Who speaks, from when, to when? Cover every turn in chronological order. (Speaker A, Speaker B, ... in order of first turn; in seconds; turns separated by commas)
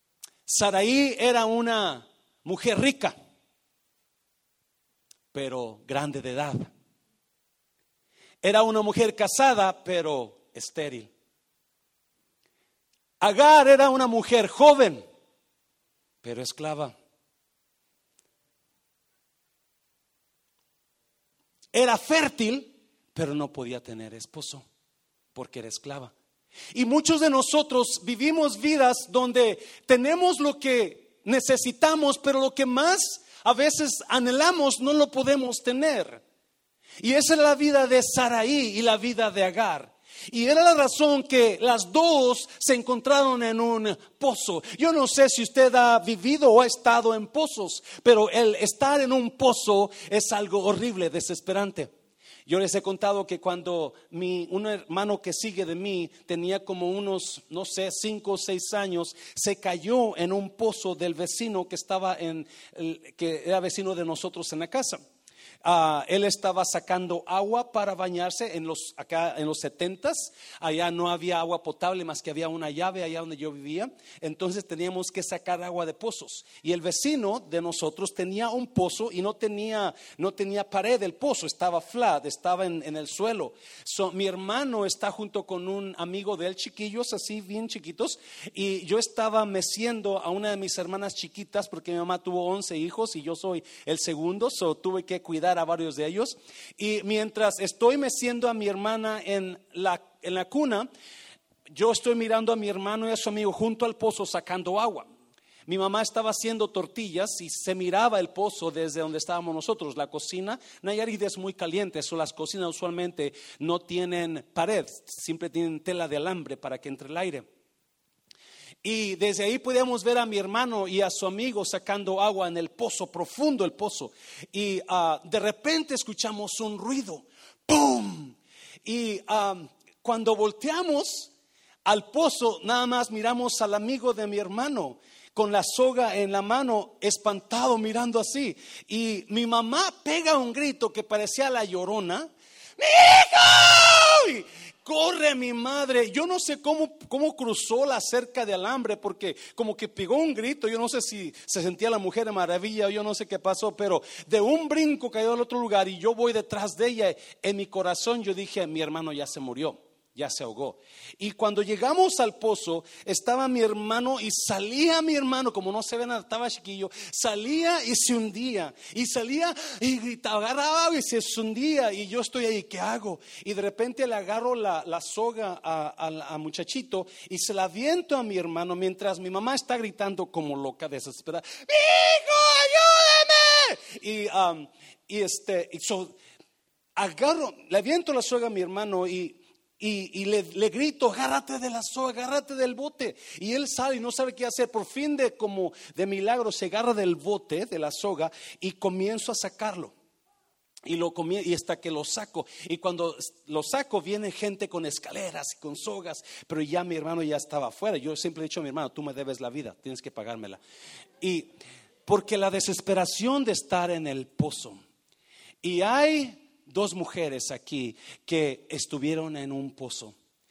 Speaker A: 0.5-3.1, Speaker A: 5.3-6.7, Speaker A: 8.4-11.1, Speaker A: 13.2-15.1, Speaker A: 16.2-16.9, Speaker A: 21.7-24.6, Speaker A: 25.3-26.1, Speaker A: 26.7-36.2, Speaker A: 37.0-51.9, Speaker A: 52.5-65.0, Speaker A: 65.6-100.9, Speaker A: 101.7-105.1, Speaker A: 105.7-117.5, Speaker A: 118.8-131.3, Speaker A: 131.8-186.2, Speaker A: 187.0-199.9, Speaker A: 200.9-210.6, Speaker A: 211.2-211.5, Speaker A: 212.1-214.8, Speaker A: 215.6-220.2